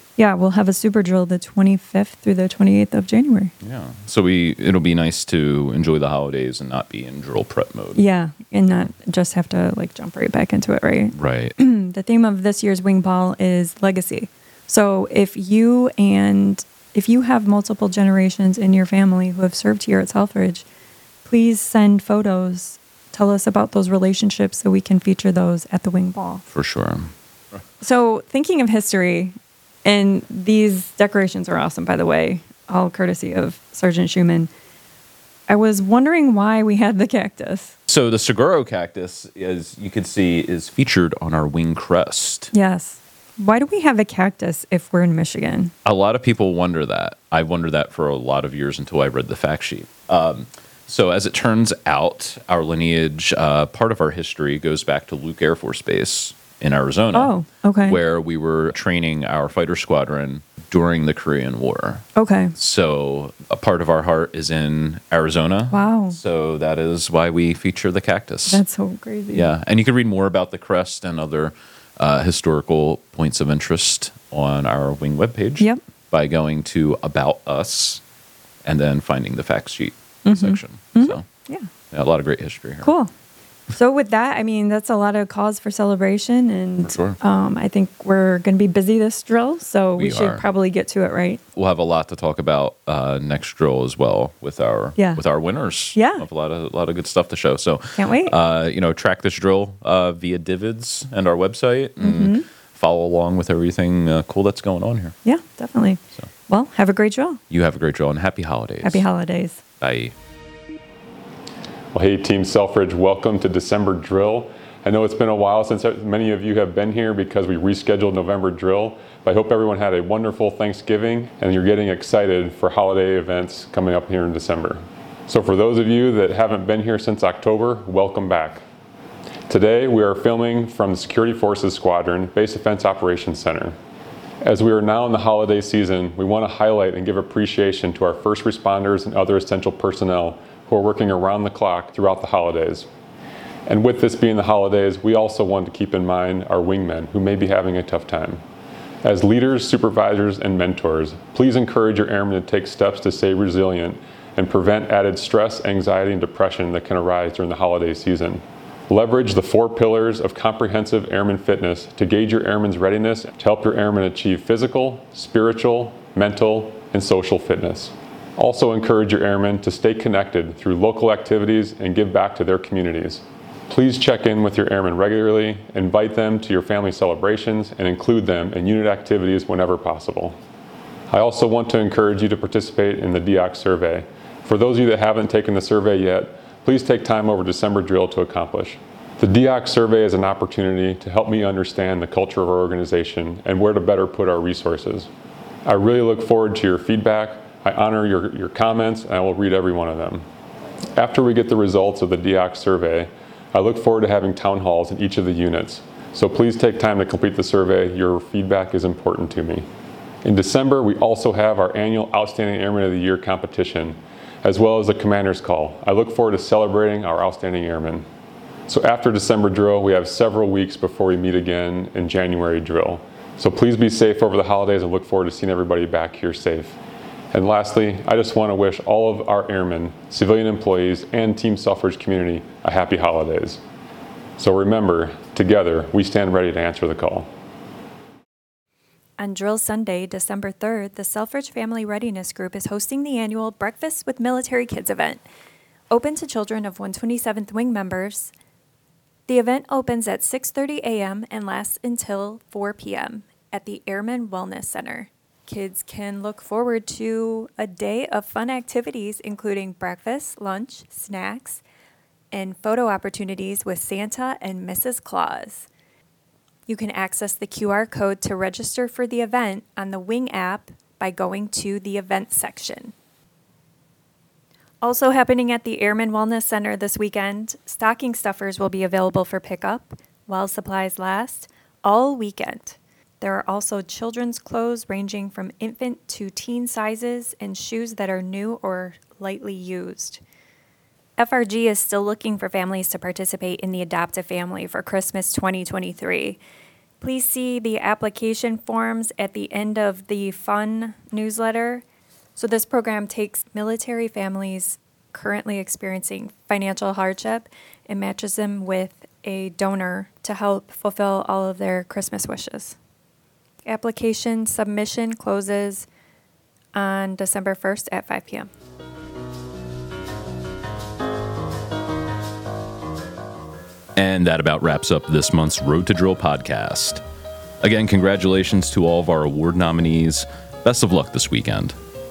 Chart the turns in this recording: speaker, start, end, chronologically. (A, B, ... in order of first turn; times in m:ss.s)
0:00.2-0:03.5 A
0:03.6-0:08.0 B
0:08.0-0:20.6 A
0:11.1-0:11.5 B
0:21.2-0:26.4 A
0:26.5-0:27.1 B
0:27.8-0:34.5 A
0:35.5-0:37.7 A
0:37.9-0:42.5 B
0:42.5-0:45.7 A
0:45.8-1:08.6 B
0:57.1-0:58.0 A
1:02.2-1:02.5 A
1:05.7-1:06.2 A
1:08.5-1:09.5 A
1:09.3-1:18.0 B
1:18.6-1:21.2 B
1:20.2-1:21.7 A
1:21.9-1:22.9 B
1:22.8-1:23.1 A
1:23.7-1:31.4 A
1:26.8-1:27.2 B
1:30.0-1:30.4 B
1:31.5-1:45.2 B
1:35.0-1:35.2 A
1:35.9-1:36.2 A
1:38.0-1:38.3 A
1:42.0-1:42.4 A
1:45.2-1:47.4 A
1:47.5-1:49.1 B
1:48.8-1:49.6 A
1:49.8-1:50.1 B
1:51.9-2:08.6 C
2:09.5-2:13.7 C
2:14.4-2:22.9 C
2:23.7-2:28.4 C
2:29.0-3:00.4 C
3:01.1-3:15.1 C
3:15.6-3:20.2 C
3:21.0-3:29.6 C
3:30.2-3:38.0 C
3:38.7-3:46.8 C
3:47.3-3:53.6 C
3:54.4-3:57.3 C
3:59.2-4:05.2 A
4:05.9-4:08.3 A
4:09.3-4:21.6 A
4:22.3-4:25.7 A
4:26.7-4:32.9 A
4:34.8-4:50.2 A
4:51.2-4:56.4 A
4:57.0-5:01.8 A
5:02.4-5:12.8 A
5:13.6-5:15.8 A
5:16.7-5:18.5 A
5:24.0-5:27.0 B
5:27.6-5:31.8 B